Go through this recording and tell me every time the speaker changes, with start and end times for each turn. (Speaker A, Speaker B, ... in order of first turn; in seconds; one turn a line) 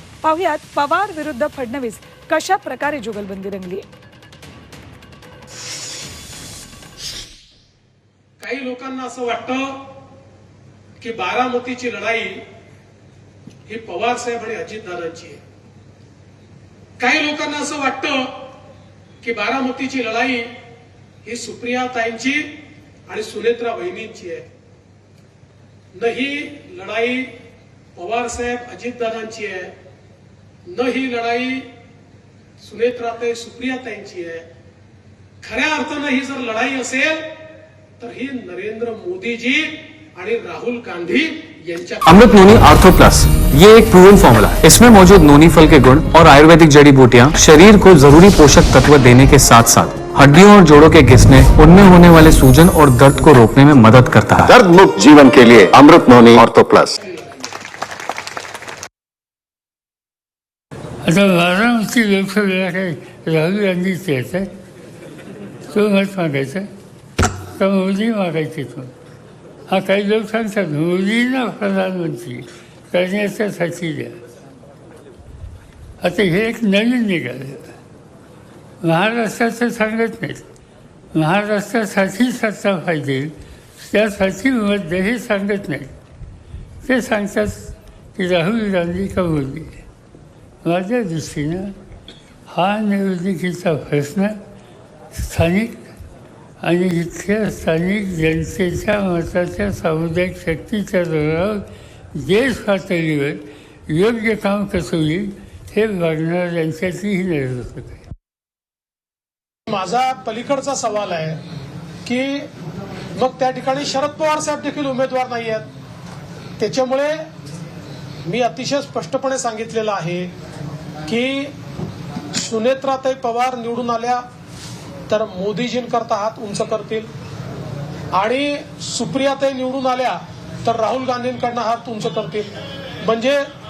Speaker A: 0.2-3.8
Speaker B: 8.4-9.7
Speaker B: 11.0-12.4
Speaker B: 13.7-15.4
Speaker B: 17.0-18.3
Speaker B: 19.2-20.5
Speaker B: 21.2-22.5
Speaker B: 23.1-24.5
Speaker B: 25.9-27.3
Speaker B: 27.9-29.7
Speaker B: 30.6-31.7
Speaker B: 32.6-34.5
Speaker B: 35.4-37.2
Speaker B: 38.0-42.1
Speaker C: 42.0-54.6
Speaker D: 54.4-56.9
Speaker E: 61.0-64.5
Speaker E: 65.7-66.7
Speaker E: 67.4-68.9
Speaker E: 69.7-74.2
Speaker E: 76.0-77.7
Speaker E: 78.8-80.4
Speaker E: 81.1-85.9
Speaker E: 86.8-89.8
Speaker E: 90.6-91.7
Speaker E: 92.5-94.4
Speaker E: 95.1-95.9
Speaker E: 96.6-108.0
Speaker B: 109.7-111.4
Speaker B: 112.0-112.5
Speaker B: 113.1-115.7
Speaker B: 116.6-117.2
Speaker B: 118.2-120.3
Speaker B: 121.1-121.5
Speaker B: 122.3-124.2
Speaker B: 125.1-127.1
Speaker B: 128.1-133.4